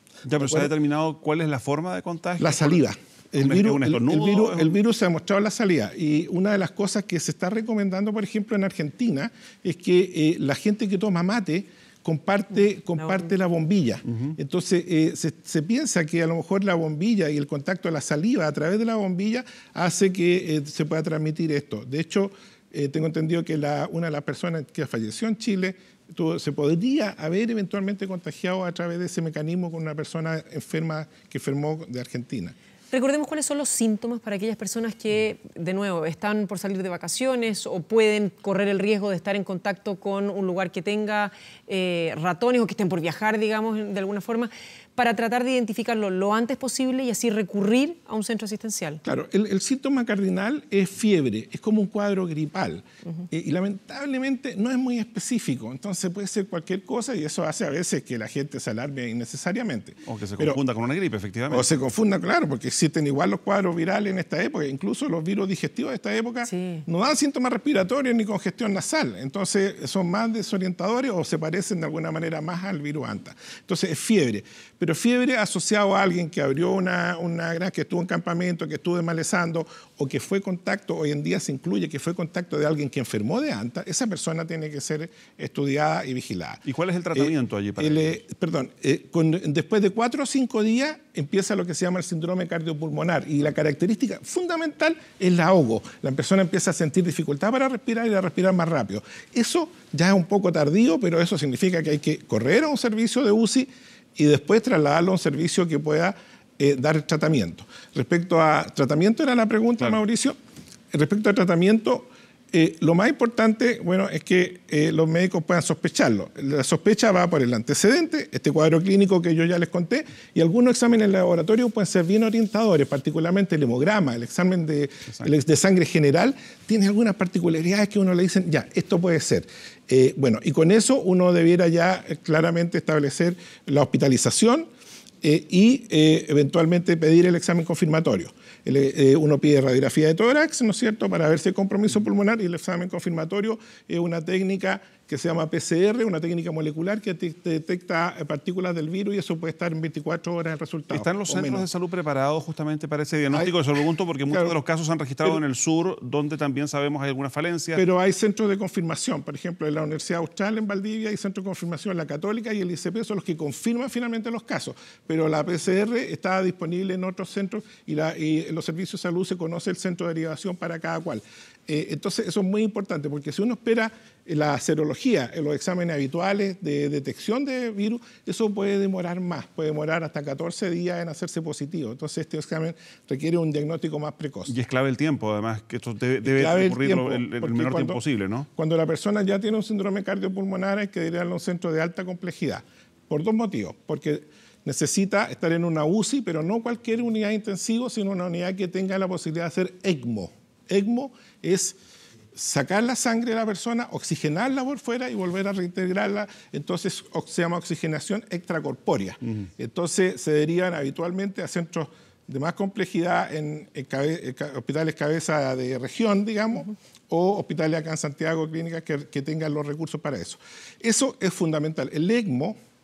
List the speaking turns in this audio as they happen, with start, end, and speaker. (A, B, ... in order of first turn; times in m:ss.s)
0:00.2-0:02.8 A
0:00.4-0:00.7 B
0:02.4-0:32.5 B
0:03.4-0:04.8 A
0:32.9-0:49.0 C
0:49.0-1:00.6 B
1:00.0-1:01.7 A
1:01.5-1:50.4 B
1:06.4-1:06.8 C
1:26.6-1:28.2 A
1:50.9-2:14.7 B
2:15.2-2:31.6 B
2:30.9-2:37.8 A
2:34.3-2:34.6 B
2:37.7-3:04.5 B
3:04.5-3:08.5 A
3:06.2-3:08.0 B
3:08.5-3:21.8 B
3:22.3-3:42.6 B